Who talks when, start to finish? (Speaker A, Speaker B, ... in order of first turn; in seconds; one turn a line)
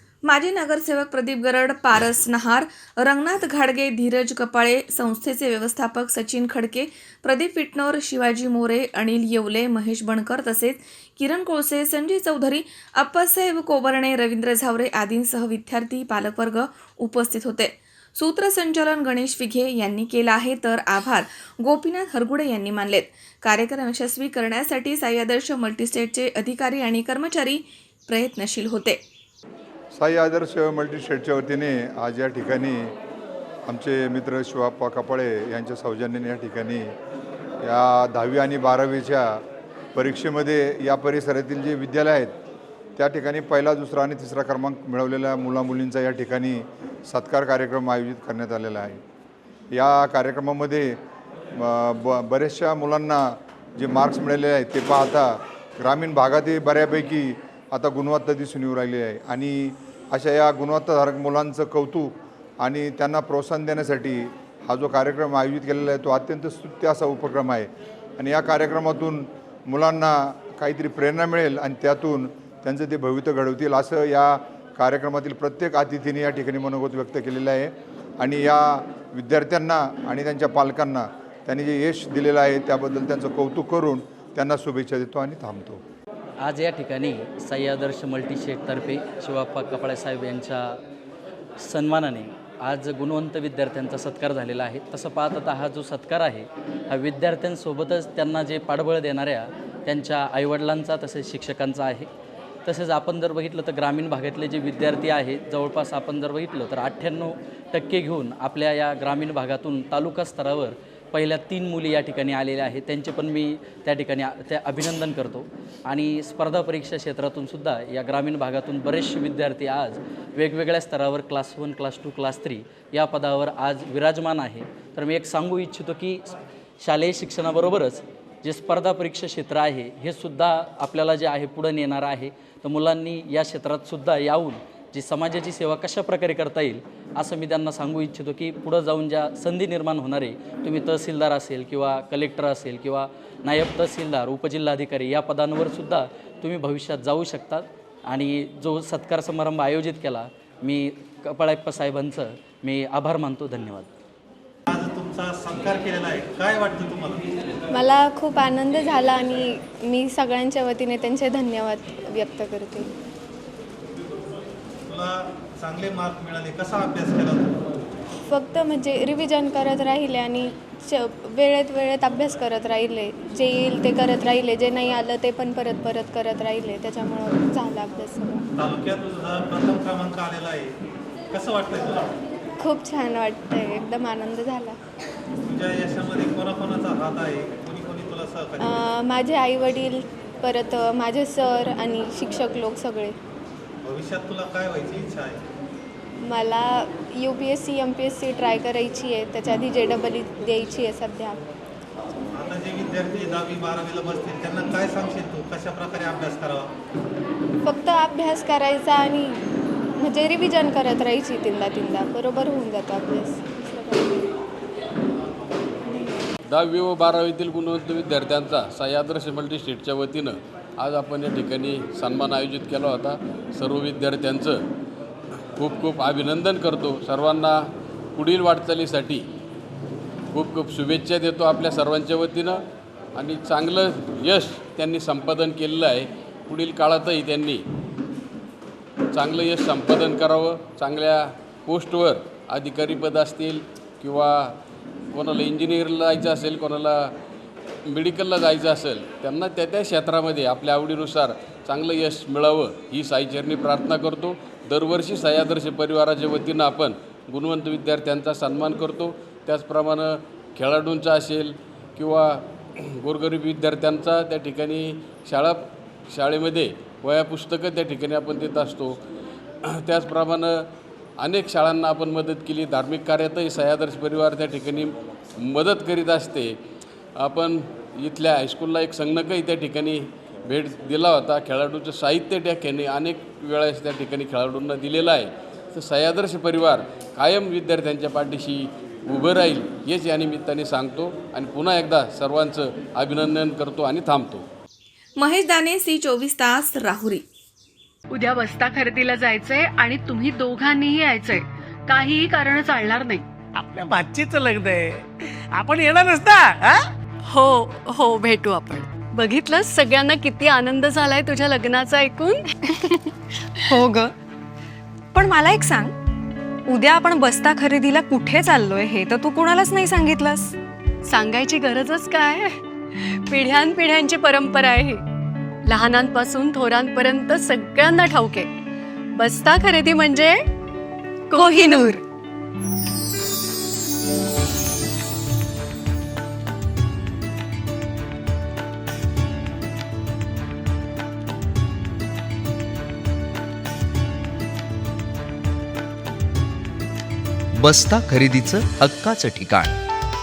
Speaker A: 0.3-29.0
Speaker B: 29.9-32.9
Speaker B: 33.7-36.9
Speaker B: 37.6-39.4
Speaker B: 39.9-42.3
Speaker B: 43.0-49.0
Speaker B: 49.7-51.0
Speaker B: 51.5-85.8
Speaker C: 86.4-90.8
Speaker C: 91.6-102.1
Speaker C: 102.6-153.9
Speaker D: 154.7-157.3
Speaker E: 157.7-162.9
Speaker D: 164.9-167.5
Speaker E: 168.2-178.4
Speaker D: 178.6-180.7
Speaker D: 181.3-182.1
Speaker E: 182.6-184.8
Speaker D: 185.4-188.8
Speaker E: 188.6-193.1
Speaker D: 193.8-195.4
Speaker E: 196.2-201.4
Speaker D: 202.3-206.7
Speaker E: 207.6-209.4
Speaker E: 210.0-214.3
Speaker F: 216.5-224.6
Speaker F: 225.6-227.6
Speaker F: 228.1-229.2
Speaker F: 230.3-232.6
Speaker F: 233.1-237.6
Speaker F: 239.1-244.6
Speaker F: 245.1-247.1
Speaker F: 247.8-268.9
Speaker F: 269.6-270.6
Speaker F: 271.2-276.6
Speaker F: 277.2-294.4
Speaker A: 295.2-297.2
Speaker G: 298.1-303.2
Speaker H: 303.6-305.0
Speaker H: 305.6-306.8
Speaker G: 307.2-312.5
Speaker I: 315.2-315.9
Speaker I: 316.7-320.3
Speaker G: 321.0-325.0
Speaker G: 325.6-328.5
Speaker G: 329.1-330.4
Speaker G: 331.3-332.0
Speaker J: 347.6-349.8